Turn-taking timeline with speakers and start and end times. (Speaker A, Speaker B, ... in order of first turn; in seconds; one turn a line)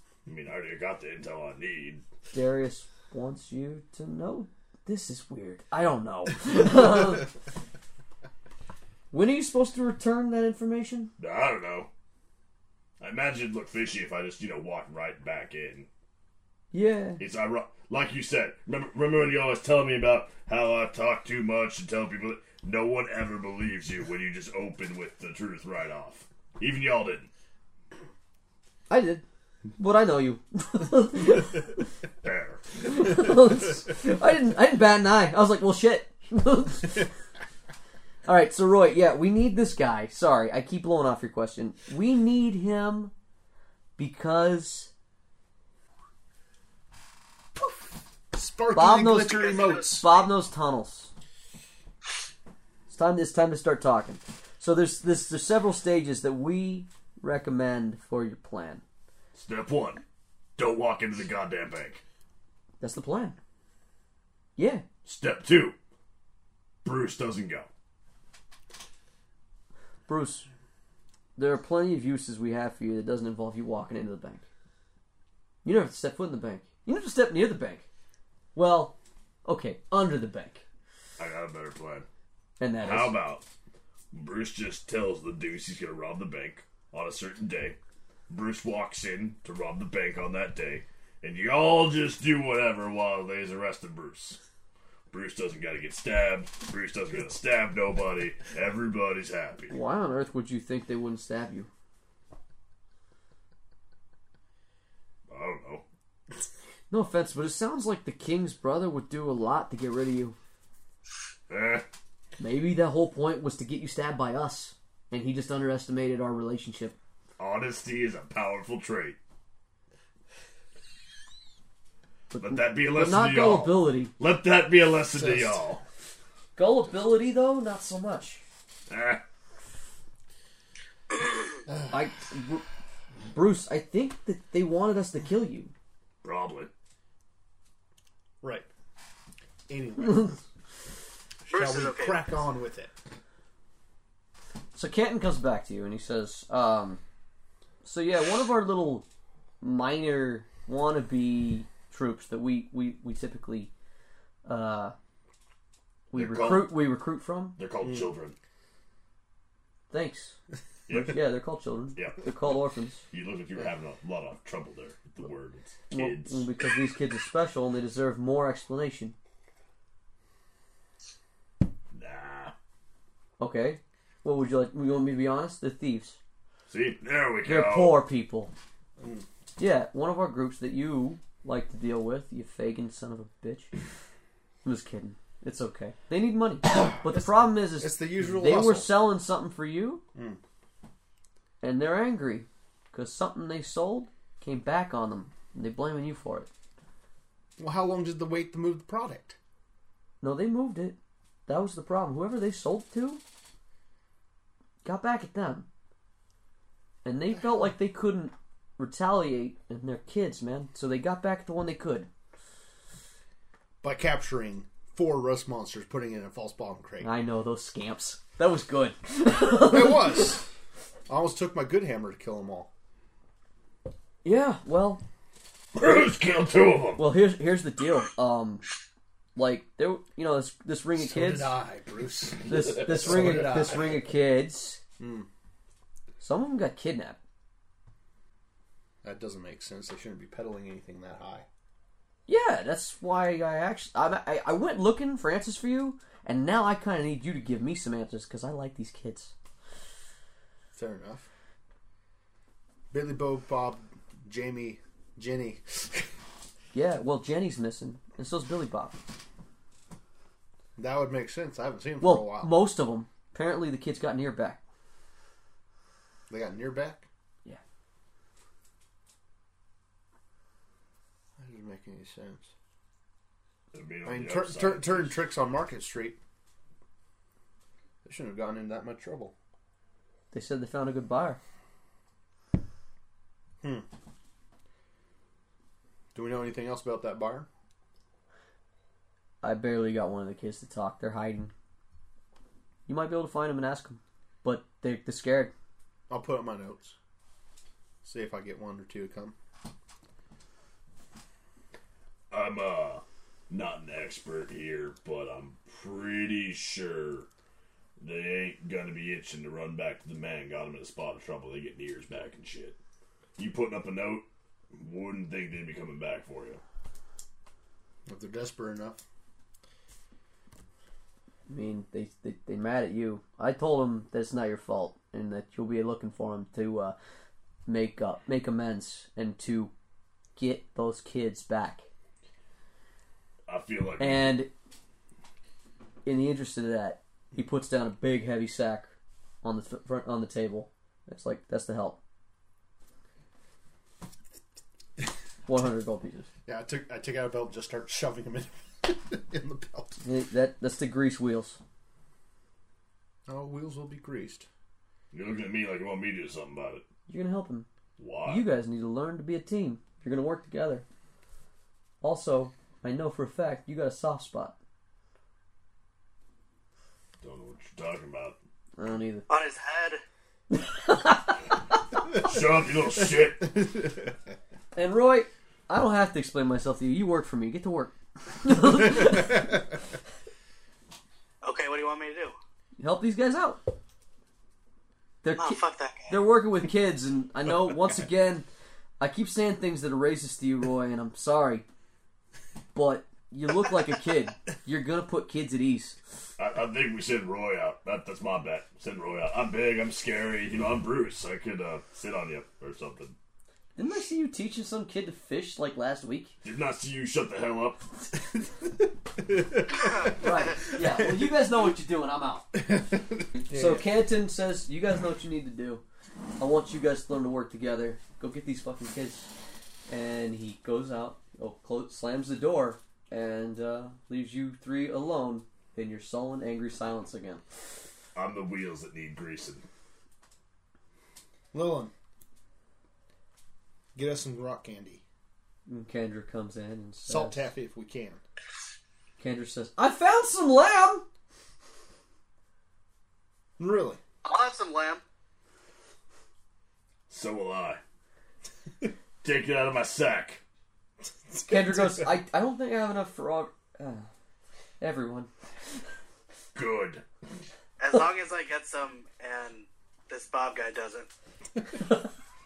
Speaker A: 0.2-2.0
Speaker B: 2.3-7.3
Speaker B: 9.1-11.1
Speaker A: 11.2-11.9
Speaker A: 13.0-15.9
Speaker B: 16.7-17.2
Speaker A: 17.2-27.3
Speaker B: 28.9-29.2
Speaker B: 29.8-31.9
Speaker A: 32.2-32.6
Speaker B: 32.8-37.1
Speaker B: 38.2-43.1
Speaker B: 44.0-44.9
Speaker C: 48.3-50.1
Speaker B: 48.7-51.1
Speaker B: 52.9-58.8
Speaker A: 59.3-60.0
Speaker A: 60.6-62.0
Speaker B: 62.8-63.4
Speaker B: 64.5-64.8
Speaker A: 65.0-65.8
Speaker A: 66.8-67.7
Speaker B: 70.1-70.5
Speaker B: 71.4-74.4
Speaker B: 75.6-77.8
Speaker B: 78.5-80.6
Speaker A: 81.2-82.0
Speaker B: 82.6-83.2
Speaker A: 82.8-83.4
Speaker A: 84.1-87.8
Speaker A: 88.3-94.4
Speaker A: 95.1-99.7
Speaker B: 99.7-101.7
Speaker A: 105.3-105.8
Speaker B: 106.9-110.3
Speaker A: 111.5-111.8
Speaker B: 112.4-117.0
Speaker A: 117.4-119.2
Speaker B: 122.3-124.1
Speaker A: 122.4-125.8
Speaker C: 125.1-125.6
Speaker B: 126.5-128.4
Speaker A: 128.9-129.2
Speaker B: 131.9-132.6
Speaker B: 133.3-135.7
Speaker A: 136.2-136.7
Speaker C: 138.4-138.7
Speaker C: 139.7-140.4
Speaker C: 141.4-142.9
Speaker D: 141.5-142.2
Speaker B: 144.7-147.0
Speaker B: 147.8-149.0
Speaker B: 149.6-153.7
Speaker B: 154.4-154.9
Speaker B: 156.1-157.6
Speaker A: 156.1-156.8
Speaker A: 157.6-158.3
Speaker C: 157.8-158.1
Speaker B: 159.9-160.4
Speaker A: 160.9-161.2
Speaker B: 160.9-163.0
Speaker A: 161.9-162.2
Speaker A: 163.1-166.4
Speaker B: 165.9-169.1
Speaker A: 171.9-172.5
Speaker B: 173.4-176.2
Speaker A: 176.7-178.0
Speaker B: 177.4-178.5
Speaker C: 179.0-179.2
Speaker B: 179.6-183.7
Speaker B: 184.6-190.0
Speaker C: 187.0-189.0
Speaker C: 190.1-190.4
Speaker B: 191.6-196.5
Speaker C: 197.6-199.4
Speaker B: 200.2-203.2
Speaker B: 204.8-205.7
Speaker B: 207.0-212.1
Speaker C: 213.8-217.1
Speaker B: 217.0-220.4
Speaker C: 219.3-220.4
Speaker C: 221.1-222.7
Speaker B: 224.2-225.0
Speaker A: 225.7-227.0
Speaker B: 226.9-228.6
Speaker B: 229.3-231.5
Speaker C: 230.9-233.9
Speaker B: 232.4-234.8
Speaker C: 235.0-235.3
Speaker B: 236.2-237.2
Speaker C: 239.0-241.4
Speaker B: 242.3-249.3
Speaker C: 250.7-251.3
Speaker C: 252.9-256.1
Speaker B: 256.7-259.0
Speaker C: 260.8-262.5
Speaker B: 262.0-264.6
Speaker C: 266.3-267.1
Speaker C: 271.4-272.5
Speaker A: 273.7-275.2
Speaker C: 274.0-276.2
Speaker C: 278.0-279.3
Speaker B: 280.3-281.4
Speaker C: 286.1-287.5
Speaker B: 289.4-291.5
Speaker B: 292.9-295.5
Speaker C: 296.1-296.9
Speaker C: 298.0-299.3
Speaker A: 302.3-307.3
Speaker A: 308.0-312.8
Speaker A: 313.4-316.6
Speaker C: 318.1-319.0
Speaker B: 321.5-326.9
Speaker B: 327.7-329.7
Speaker B: 330.4-331.8
Speaker A: 333.5-334.4
Speaker B: 334.0-334.5
Speaker B: 336.0-338.9
Speaker B: 339.4-342.0
Speaker B: 345.5-346.3
Speaker C: 346.4-350.0
Speaker B: 350.0-351.6
Speaker C: 353.3-354.5
Speaker A: 355.1-356.8
Speaker B: 357.1-357.7
Speaker A: 358.0-358.5
Speaker B: 358.2-360.8
Speaker B: 362.0-364.6
Speaker A: 367.2-368.4
Speaker B: 368.8-369.3
Speaker D: 369.3-370.0
Speaker B: 370.5-371.3
Speaker A: 372.1-373.5
Speaker B: 374.7-379.6
Speaker D: 381.4-382.3
Speaker B: 382.8-383.6
Speaker B: 385.2-388.5
Speaker D: 385.4-386.1
Speaker B: 389.0-391.6
Speaker B: 392.7-395.9
Speaker A: 396.4-403.1
Speaker B: 403.8-406.4
Speaker A: 406.4-407.9
Speaker C: 409.4-409.8
Speaker B: 410.1-412.5
Speaker C: 412.7-413.9
Speaker B: 413.5-415.8
Speaker B: 416.4-419.3
Speaker B: 419.9-427.4
Speaker A: 428.1-429.6
Speaker C: 431.5-431.9
Speaker C: 433.9-435.0
Speaker B: 435.7-437.5
Speaker C: 437.1-438.2
Speaker B: 439.2-441.0
Speaker C: 443.6-444.0
Speaker D: 444.2-445.0
Speaker A: 447.1-447.8
Speaker A: 449.2-450.4
Speaker C: 451.3-452.1
Speaker B: 451.5-454.0
Speaker B: 454.8-455.3
Speaker A: 456.5-457.0
Speaker D: 457.8-461.1
Speaker B: 461.8-462.1